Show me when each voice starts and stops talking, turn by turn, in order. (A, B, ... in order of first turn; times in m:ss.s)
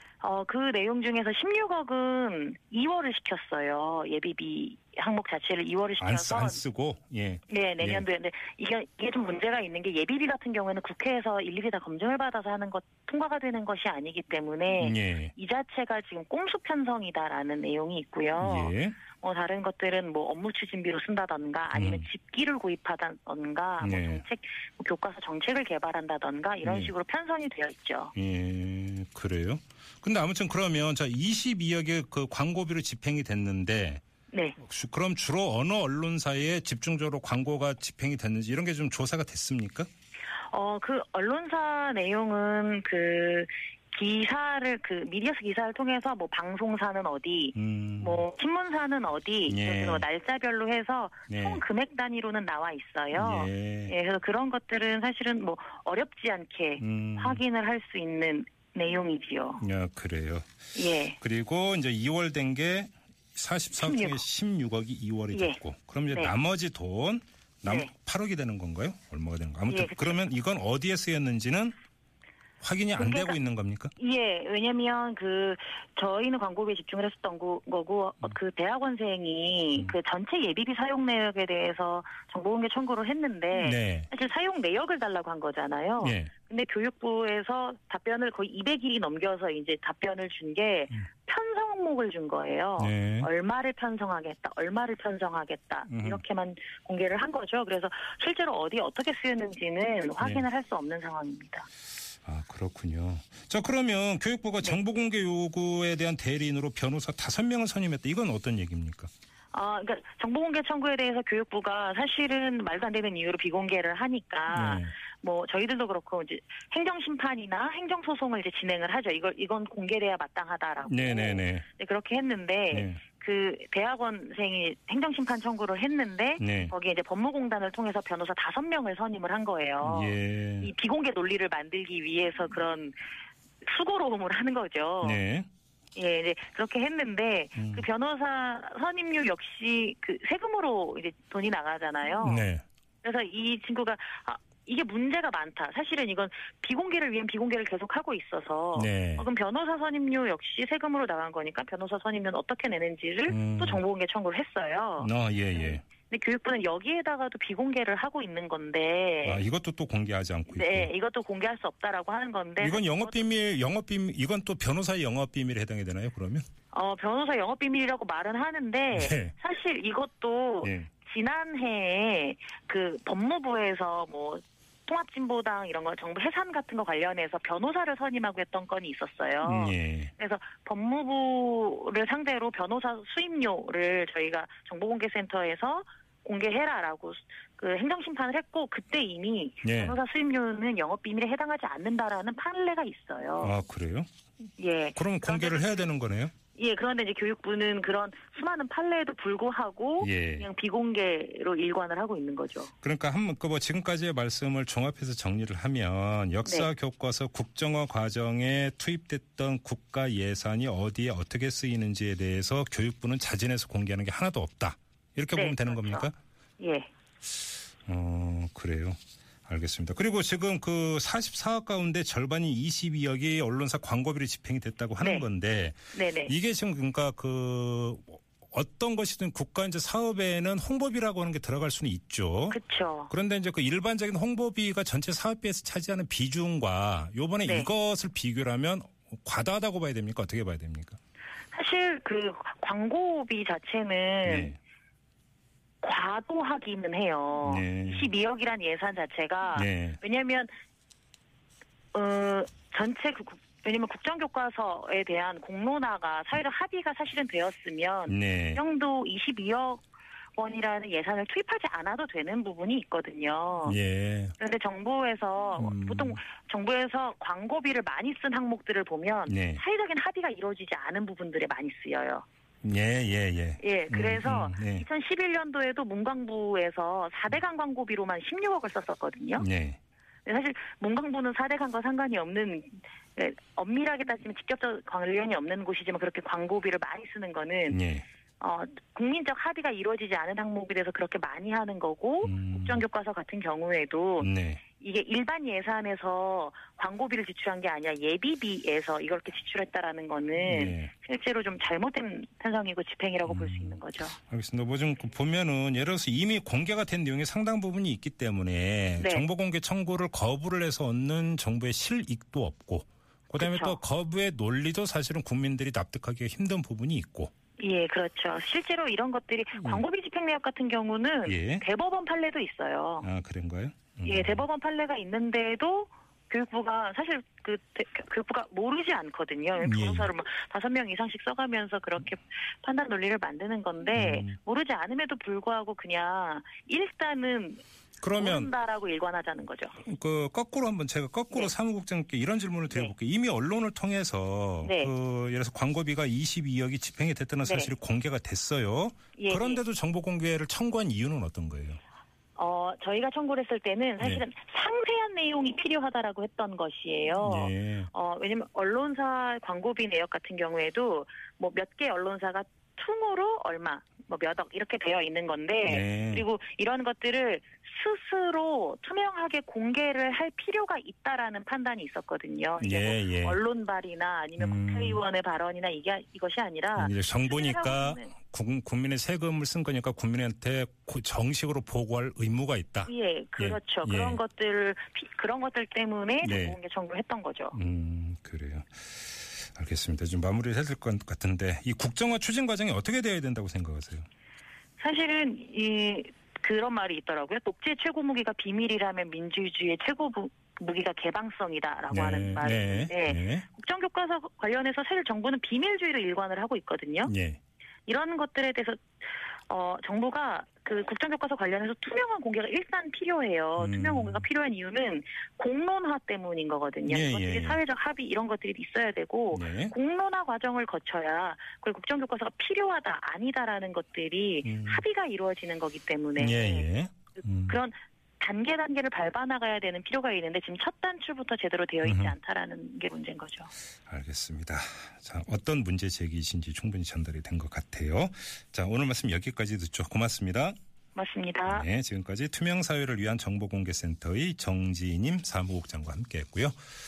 0:00.2-0:06.6 A
0:06.0-0:08.1 B
0:07.5-0:28.1 A
0:14.8-0:15.3 B
0:18.4-0:19.0 B
0:21.7-0:22.0 B
0:23.8-0:24.2 B
0:26.6-0:26.9 B
0:28.2-0:34.0 B
0:34.3-0:34.6 A
0:34.6-0:39.9 B
0:40.5-0:59.6 A
0:47.6-0:48.2 B
0:49.5-0:50.1 B
0:51.3-0:51.6 B
0:53.1-0:53.9 B
0:56.8-0:57.4 B
0:59.6-1:00.4 B
1:00.8-1:01.2 A
1:01.2-1:11.8 B
1:03.8-1:04.2 A
1:05.3-1:05.6 A
1:07.6-1:07.9 A
1:09.7-1:10.2 A
1:12.6-1:13.9 B
1:13.0-1:13.4 A
1:14.0-1:41.7 A
1:23.6-1:24.1 B
1:26.0-1:26.3 B
1:32.8-1:33.3 B
1:35.9-1:36.2 B
1:40.2-1:40.4 B
1:42.2-1:49.1 B
1:49.5-2:13.0 A
1:54.5-1:54.9 B
2:00.9-2:01.6 B
2:02.7-2:03.0 B
2:06.4-2:06.7 B
2:09.8-2:10.7 B
2:13.6-2:15.2 A
2:15.0-2:15.5 B
2:15.9-2:22.5 A
2:17.6-2:17.9 B
2:22.2-2:22.6 B
2:23.0-2:39.4 A
2:28.8-2:29.3 B
2:33.3-2:33.8 B
2:35.0-2:35.8 B
2:39.2-2:40.9 B
2:40.5-2:43.3 A
2:42.6-2:46.4 B
2:46.7-3:13.5 A
2:48.9-2:49.3 B
2:50.6-2:50.9 B
2:59.4-3:00.1 B
3:09.6-3:10.0 B
3:13.4-3:14.1 B
3:14.6-3:15.9 A
3:15.0-3:16.3 B
3:16.6-3:22.7 A
3:20.0-3:20.5 B
3:22.8-3:36.1 B
3:35.3-3:36.9 A
3:37.9-4:01.0 B
3:45.0-3:45.2 A
3:45.9-3:46.3 A
3:52.5-3:53.1 A
4:01.5-4:04.6 A
4:04.2-4:04.6 B
4:05.8-4:10.5 A
4:07.4-4:08.1 B
4:09.6-4:10.0 B
4:11.9-4:19.8 A
4:18.1-4:18.6 B
4:20.4-4:23.8 A
4:23.6-4:24.3 B
4:24.4-4:32.2 A
4:25.6-4:26.2 B
4:29.3-4:29.6 B
4:32.6-4:34.9 B
4:33.6-4:39.5 A
4:39.4-4:39.8 B
4:40.2-4:47.8 A
4:47.7-4:48.1 B
4:48.4-5:04.2 A
4:52.2-4:52.8 B
4:54.2-4:54.6 B
5:00.4-5:00.9 B
5:03.2-5:17.3 B
5:09.0-5:09.3 A
5:13.4-5:13.8 A
5:17.6-5:23.1 A
5:19.6-5:19.8 B
5:21.3-5:21.6 B
5:23.0-5:24.4 B
5:24.0-5:37.6 A
5:29.6-5:30.1 B
5:33.9-5:34.3 B
5:38.0-5:38.5 B
5:38.1-5:39.8 A
5:39.8-5:51.8 B
5:42.7-5:42.9 A
5:44.6-5:44.9 A
5:47.4-5:47.7 A
5:49.2-5:49.6 A
5:52.4-6:18.1 A
5:54.0-5:54.2 B
5:57.2-5:57.9 B
6:05.7-6:06.3 B
6:12.6-6:13.4 B
6:14.4-6:15.0 B
6:16.8-6:24.2 B
6:22.9-6:27.6 A
6:26.2-6:26.6 B
6:27.5-6:34.0 B
6:34.8-6:47.1 A
6:41.9-6:43.4 B
6:47.0-6:47.4 B
6:47.8-6:48.8 A
6:49.4-7:13.5 A
6:53.6-6:54.3 B
6:56.8-6:57.6 B
6:59.3-6:59.7 B
7:04.4-7:04.8 B
7:06.2-7:07.6 B
7:11.8-7:12.2 B
7:13.9-7:20.6 B
7:20.9-7:21.7 A
7:21.5-7:26.6 B